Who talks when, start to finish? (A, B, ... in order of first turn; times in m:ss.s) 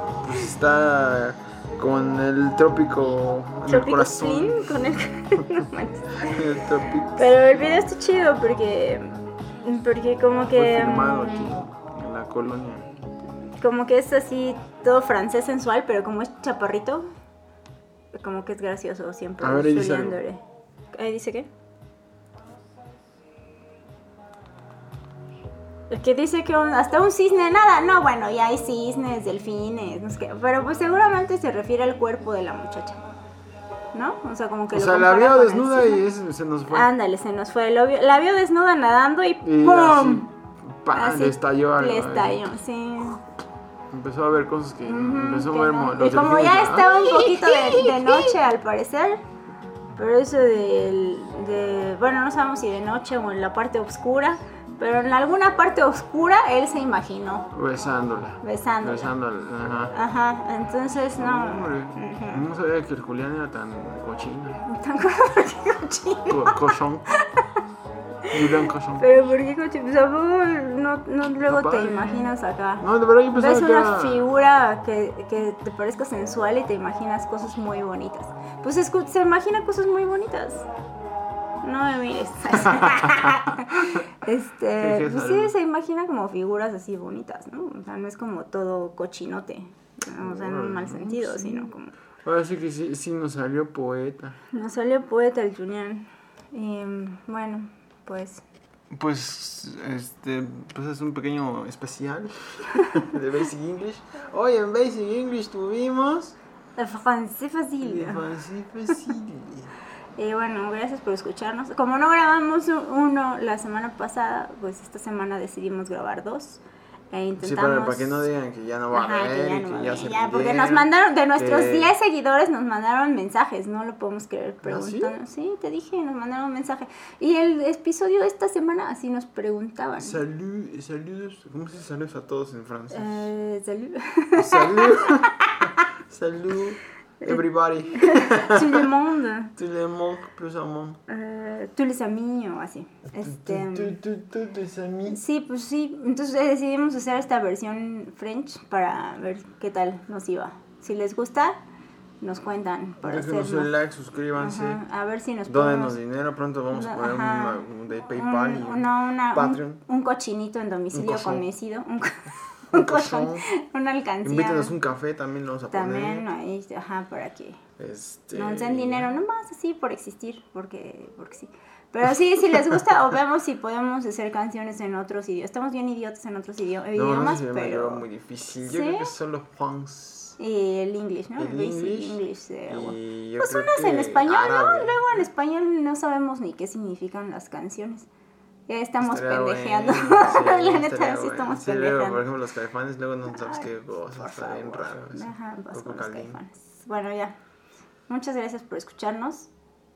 0:00.2-0:04.9 A
0:03.7-0:06.5 B
0:06.2-0:07.8 A
0:07.1-0:11.6 B
0:10.5-0:12.9 A
0:13.6-0:17.1 B
0:18.1-0:21.5 B
0:19.4-0:20.2 A
0:25.9-0:33.0 B
0:33.9-0:36.0 B
0:34.7-0:36.9 A
0:36.7-0:40.3 B
0:39.4-0:40.3 A
0:40.8-0:42.5 A
0:40.9-0:43.2 B
0:43.9-0:48.4 A
0:44.8-0:49.2 B
0:50.0-0:57.5 B
0:57.5-1:00.0 A
0:58.4-0:59.1 B
0:59.9-1:02.4 B
1:01.2-1:04.6 A
1:04.6-1:06.6 B
1:06.2-1:07.1 A
1:07.2-1:07.6 B
1:08.3-1:20.6 B
1:08.3-1:09.1 A
1:11.4-1:14.4 A
1:21.6-1:31.9 B
1:22.6-1:24.0 A
1:24.8-1:25.5 A
1:30.2-1:34.4 A
1:34.5-1:38.4 B
1:38.9-1:46.4 A
1:46.8-1:48.2 B
1:47.8-1:49.7 A
1:50.2-1:58.3 B
1:57.4-2:02.0 A
1:58.9-2:10.2 B
2:04.6-2:05.1 A
2:10.0-2:13.3 A
2:12.9-2:15.8 B
2:14.4-2:15.4 A
2:16.0-2:18.9 A
2:17.2-2:19.6 B
2:19.6-2:21.0 A
2:21.1-2:24.0 B
2:23.1-2:25.2 A
2:25.1-2:31.6 B
2:32.2-2:33.7 B
2:33.0-2:34.8 A
2:34.4-2:36.0 B
2:35.5-2:39.8 A
2:36.7-2:44.8 B
2:40.9-2:41.5 A
2:42.7-2:43.5 A
2:44.2-2:46.3 A
2:45.7-2:47.6 B
2:47.8-2:49.2 A
2:48.3-2:58.1 B
2:52.5-2:52.8 A
2:57.0-3:00.4 A
2:58.6-2:59.1 B
3:00.4-3:08.1 B
3:01.4-3:05.3 A
3:08.7-3:12.2 B
3:09.0-3:16.4 A
3:13.2-3:17.4 B
3:18.1-3:19.5 B